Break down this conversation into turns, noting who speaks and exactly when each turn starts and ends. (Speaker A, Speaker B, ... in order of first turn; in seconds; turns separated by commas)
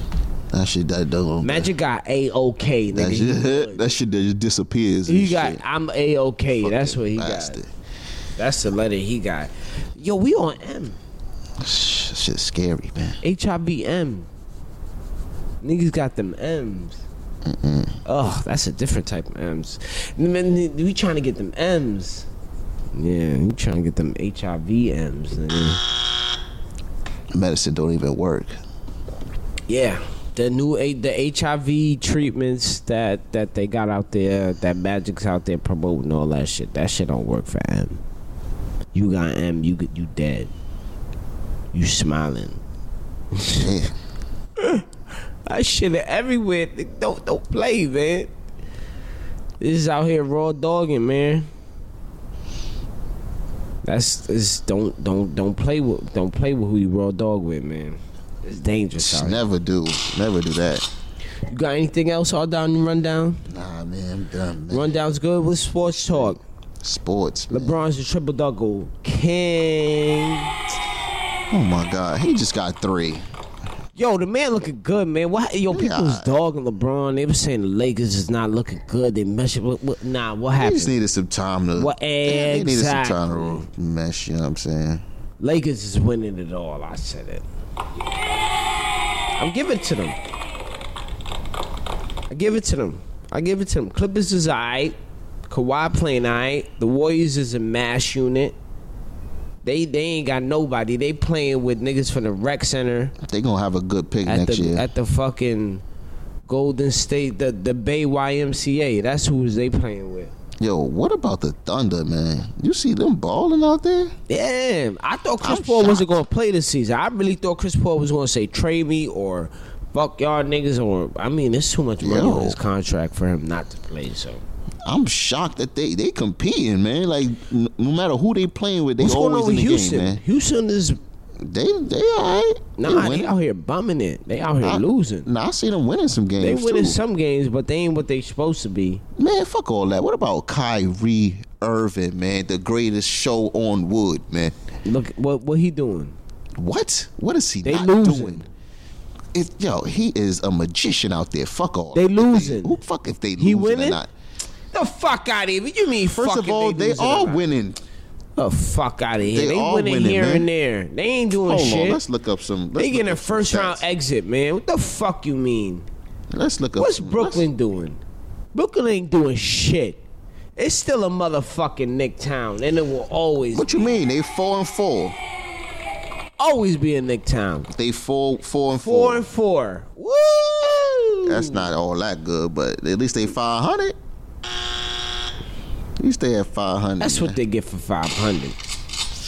Speaker A: 0.5-1.7, Speaker B: 1.4-3.8, Speaker A: 2.9-5.6, Speaker B: 5.0-7.6, Speaker A: 6.6-7.7, Speaker B: 8.4-11.0, Speaker A: 11.6-13.2, Speaker B: 13.2-14.3, Speaker B: 15.6-17.0, Speaker A: 17.4-18.0, Speaker B: 18.0-22.3, Speaker B: 22.9-25.8, Speaker A: 27.3-28.6, Speaker B: 29.7-38.0, Speaker B: 38.9-40.5, Speaker B: 41.7-42.6, Speaker B: 43.3-43.7, Speaker A: 43.6-43.9, Speaker B: 44.6-44.9, Speaker B: 45.5-48.3, Speaker B: 49.6-51.5, Speaker B: 53.8-59.4, Speaker A: 59.0-60.9, Speaker B: 61.5-63.4, Speaker A: 63.5-64.9, Speaker B: 64.7-66.4, Speaker A: 65.9-67.8, Speaker B: 67.5-70.5, Speaker A: 71.5-73.2, Speaker B: 74.0-80.9, Speaker A: 75.7-76.3, Speaker A: 80.6-85.0, Speaker B: 81.8-83.7, Speaker B: 85.4-87.4, Speaker B: 89.4-90.2, Speaker B: 92.3-94.9, Speaker B: 95.5-98.5, Speaker B: 99.6-103.1, Speaker A: 103.2-104.8, Speaker B: 104.2-105.8, Speaker B: 106.5-110.3, Speaker A: 110.6-114.1, Speaker B: 114.3-124.4, Speaker A: 115.4-116.0, Speaker A: 122.0-122.6, Speaker A: 124.8-130.2, Speaker B: 129.0-131.0, Speaker A: 131.4-133.3, Speaker B: 132.8-135.3, Speaker A: 134.6-137.0, Speaker B: 136.4-139.0, Speaker A: 139.2-144.5, Speaker B: 144.8-146.2, Speaker A: 146.6-148.4, Speaker B: 147.6-148.5, Speaker A: 149.3-154.1, Speaker B: 151.9-152.8, Speaker B: 153.4-154.0, Speaker B: 154.7-157.4, Speaker A: 156.2-157.8, Speaker B: 158.4-162.0, Speaker A: 159.2-160.5, Speaker A: 161.4-163.8, Speaker B: 162.8-165.9, Speaker A: 166.3-167.4, Speaker B: 166.8-168.0, Speaker B: 168.5-170.0, Speaker B: 170.6-173.8, Speaker A: 173.5-175.2, Speaker B: 176.4-177.7, Speaker A: 177.7-179.2, Speaker B: 178.8-181.7, Speaker A: 181.2-183.9, Speaker A: 186.0-187.4, Speaker B: 187.0-188.6